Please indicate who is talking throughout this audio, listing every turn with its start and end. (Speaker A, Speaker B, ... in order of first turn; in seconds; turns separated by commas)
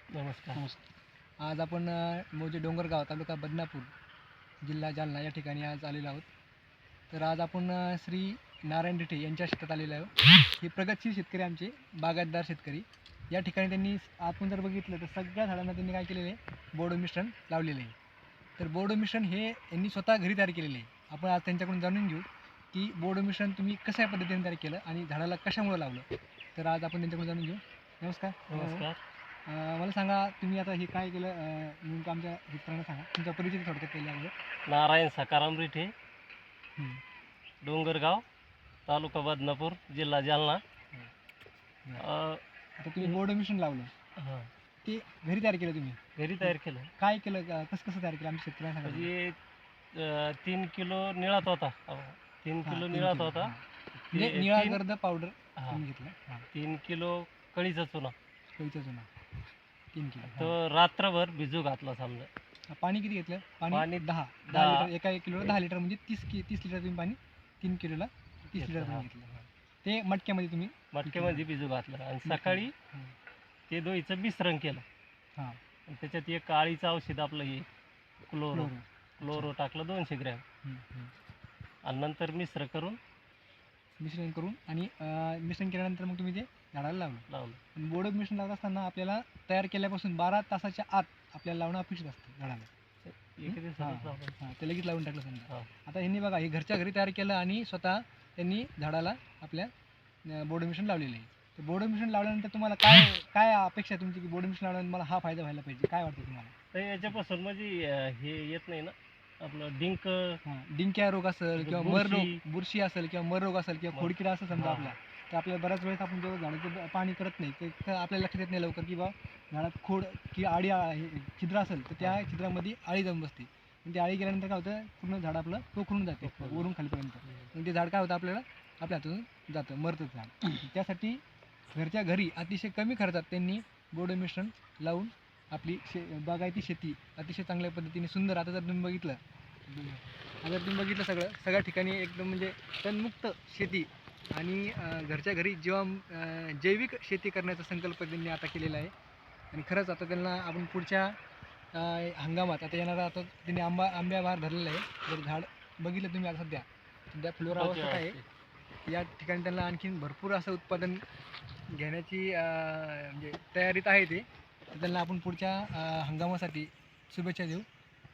Speaker A: 0.1-0.6, Speaker B: 1.4-3.9, Speaker B: 4.6-6.3, Speaker B: 7.1-17.9, Speaker B: 18.6-28.9, Speaker A: 28.5-29.0, Speaker B: 29.5-34.3, Speaker A: 34.7-35.9, Speaker B: 36.8-37.0, Speaker A: 37.6-38.2, Speaker A: 38.9-40.6, Speaker A: 42.0-42.4, Speaker B: 42.8-43.9, Speaker A: 44.2-44.5, Speaker B: 44.8-49.1, Speaker A: 46.2-46.9, Speaker A: 48.8-49.4, Speaker A: 49.9-54.8, Speaker B: 52.6-56.5, Speaker A: 55.6-55.8, Speaker A: 56.5-58.1, Speaker B: 58.6-59.1, Speaker B: 59.9-60.5, Speaker A: 60.2-62.3, Speaker B: 62.7-71.5, Speaker A: 63.7-64.9, Speaker A: 68.6-69.1, Speaker A: 70.9-72.7, Speaker B: 72.2-73.1, Speaker A: 73.7-74.8, Speaker A: 75.9-77.7, Speaker A: 78.3-80.4, Speaker B: 78.5-79.5, Speaker B: 80.6-81.1, Speaker A: 81.8-83.0, Speaker B: 84.0-92.7, Speaker A: 87.3-87.6, Speaker A: 93.0-94.4, Speaker B: 93.5-99.7, Speaker B: 100.2-107.2, Speaker A: 106.7-110.4, Speaker B: 110.4-131.2, Speaker A: 111.6-112.4, Speaker A: 113.9-114.9, Speaker A: 126.2-126.7, Speaker A: 127.2-127.5, Speaker B: 131.7-148.9, Speaker B: 149.5-151.2, Speaker B: 151.7-158.2, Speaker A: 157.5-158.2, Speaker B: 158.8-161.0, Speaker B: 161.7-167.7